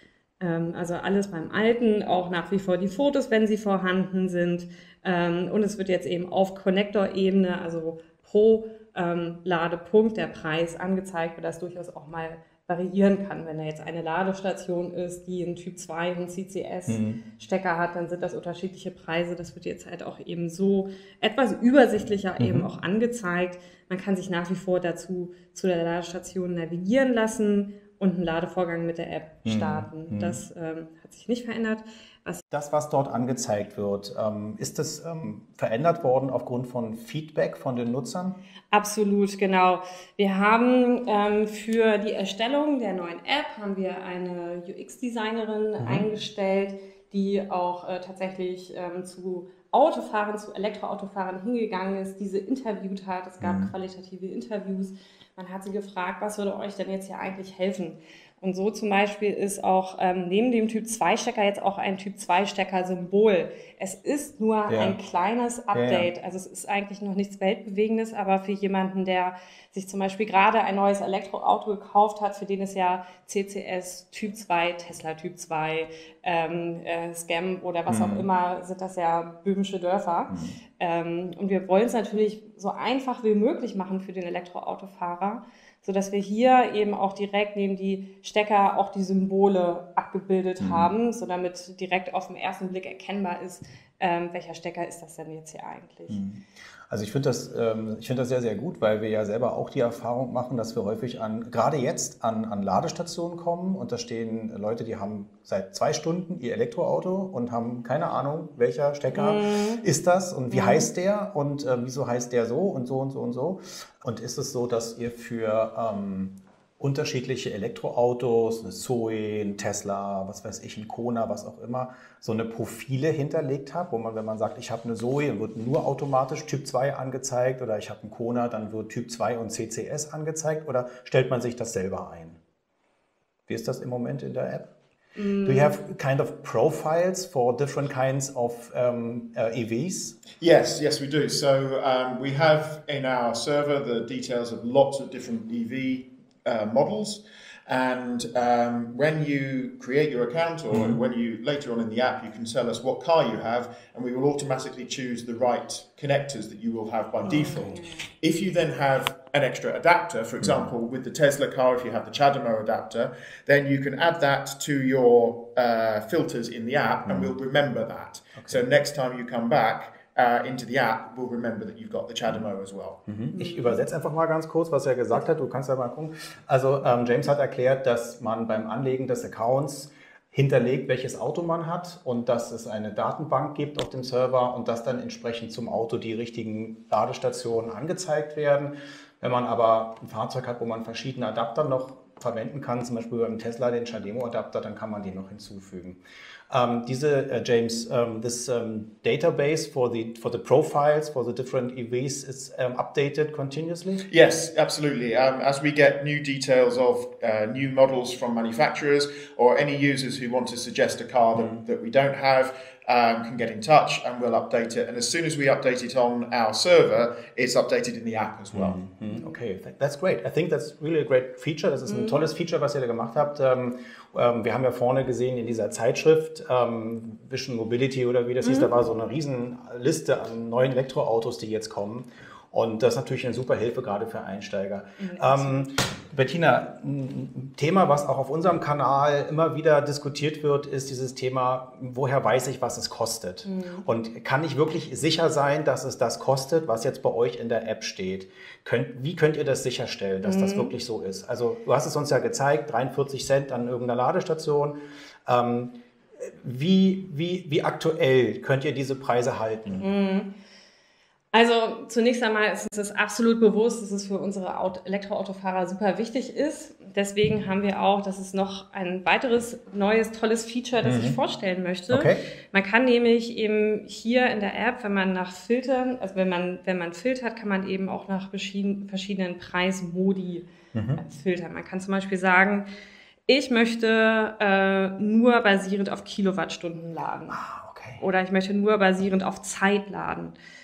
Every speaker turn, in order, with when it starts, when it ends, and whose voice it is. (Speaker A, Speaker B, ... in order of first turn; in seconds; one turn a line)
Speaker A: 0.4-32.4
Speaker B: 16.9-17.2
Speaker B: 22.4-22.7
Speaker B: 29.4-30.4
Speaker B: 32.5-38.4
Speaker A: 38.7-96.2
Speaker B: 45.8-46.0
Speaker B: 53.4-53.7
Speaker B: 64.7-65.0
Speaker B: 65.7-66.1
Speaker B: 77.9-78.3
Speaker B: 80.3-80.5
Speaker B: 90.6-90.9
Speaker B: 96.1-132.4
Speaker A: 109.1-109.8
Speaker A: 110.5-110.9
Speaker B: 133.5-134.7
Speaker A: 135.2-135.8
Speaker B: 135.4-140.2
Speaker C: 140.4-173.0
Speaker B: 150.7-151.0
Speaker B: 157.2-157.8
Speaker A: 157.3-158.0
Speaker B: 160.4-160.7
Speaker B: 167.1-167.3
Speaker B: 168.4-168.6
Speaker B: 173.1-204.1
Speaker A: 173.3-173.8
Speaker C: 204.1-218.8
Speaker B: 211.4-211.6
Speaker B: 218.5-259.9
Speaker A: 221.9-222.2
Speaker A: 228.4-228.7
Speaker A: 235.0-235.7
Speaker A: 243.4-243.8
Speaker A: 250.2-250.7
Speaker A: 259.8-260.3
Speaker A: 261.3-282.7
Speaker B: 270.8-271.2
Speaker B: 271.9-272.2
Speaker B: 280.7-281.0
Speaker A: 283.3-287.4
Speaker B: 287.3-288.0
Speaker A: 288.0-290.4